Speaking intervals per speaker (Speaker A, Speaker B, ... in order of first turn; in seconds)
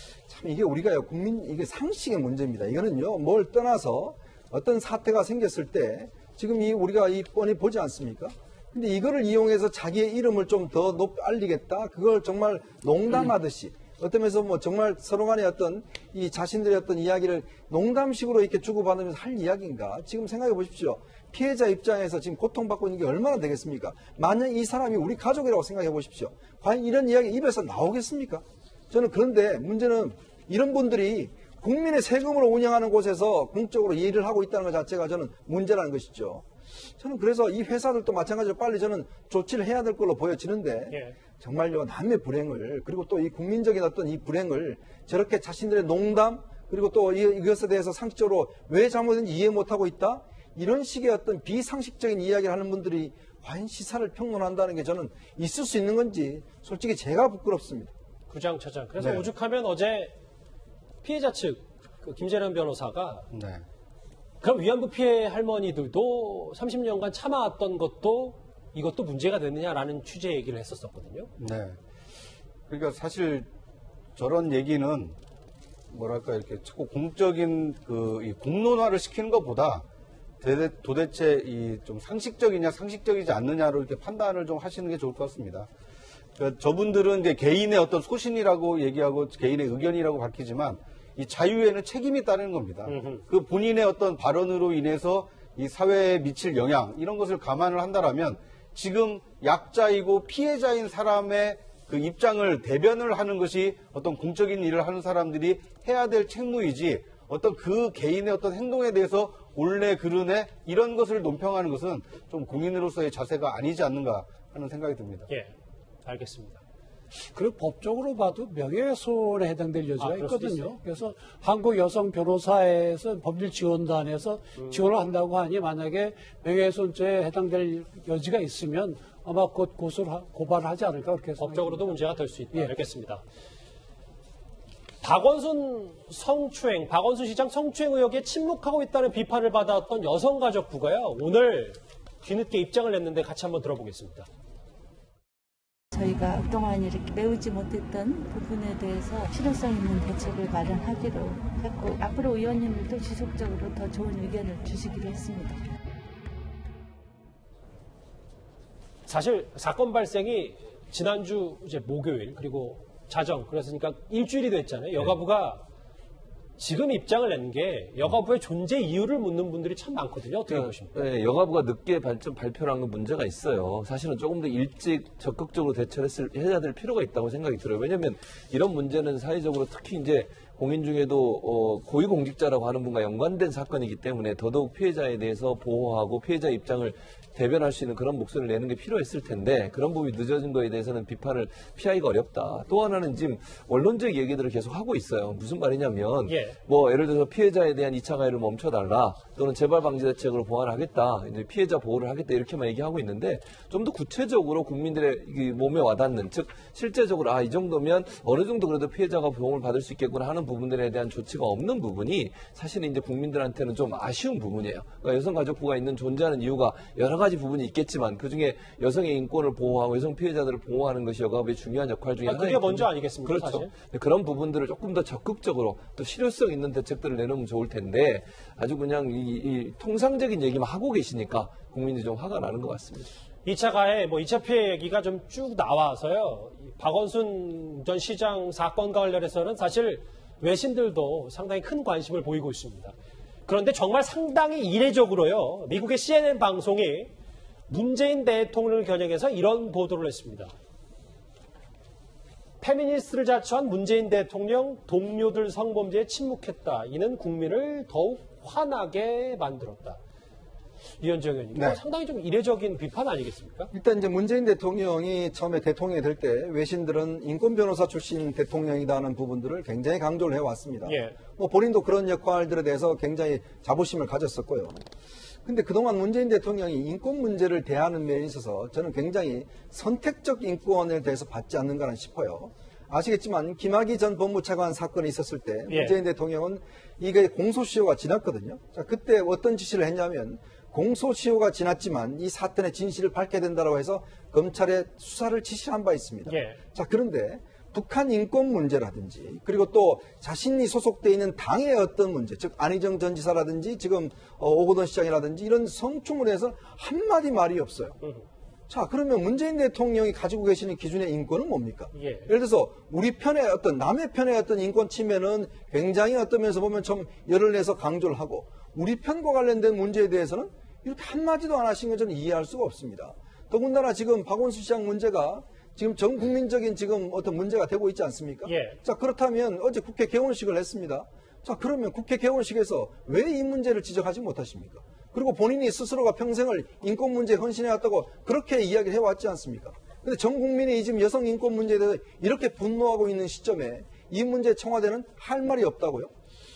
Speaker A: 0.3-36.5, 37.0-57.9, 261.5-261.8, 263.7-274.8, 275.4-308.0, 308.7-346.1
Speaker B: 40.9-41.2, 58.3-60.1, 61.0-63.3, 64.4-71.3, 92.9-93.2, 115.3-115.5, 116.0-116.6, 120.0-120.7, 131.4-133.2, 135.0-144.3, 159.1-165.6, 166.6-171.0, 196.2-196.6, 222.2-223.7, 233.4-242.9, 243.5-247.1, 247.7-250.5, 252.6-260.0, 261.0-263.7, 270.8-271.2, 285.7-286.0, 296.2-296.6, 311.9-312.3, 328.4-328.8
Speaker C: 59.0-59.3, 63.3-63.6, 71.4-71.8, 72.7-73.5, 74.2-75.2, 75.9-79.8, 80.4-85.7, 86.3-115.3
Speaker D: 117.3-132.0
Speaker E: 145.9-155.6
Speaker F: 170.5-233.1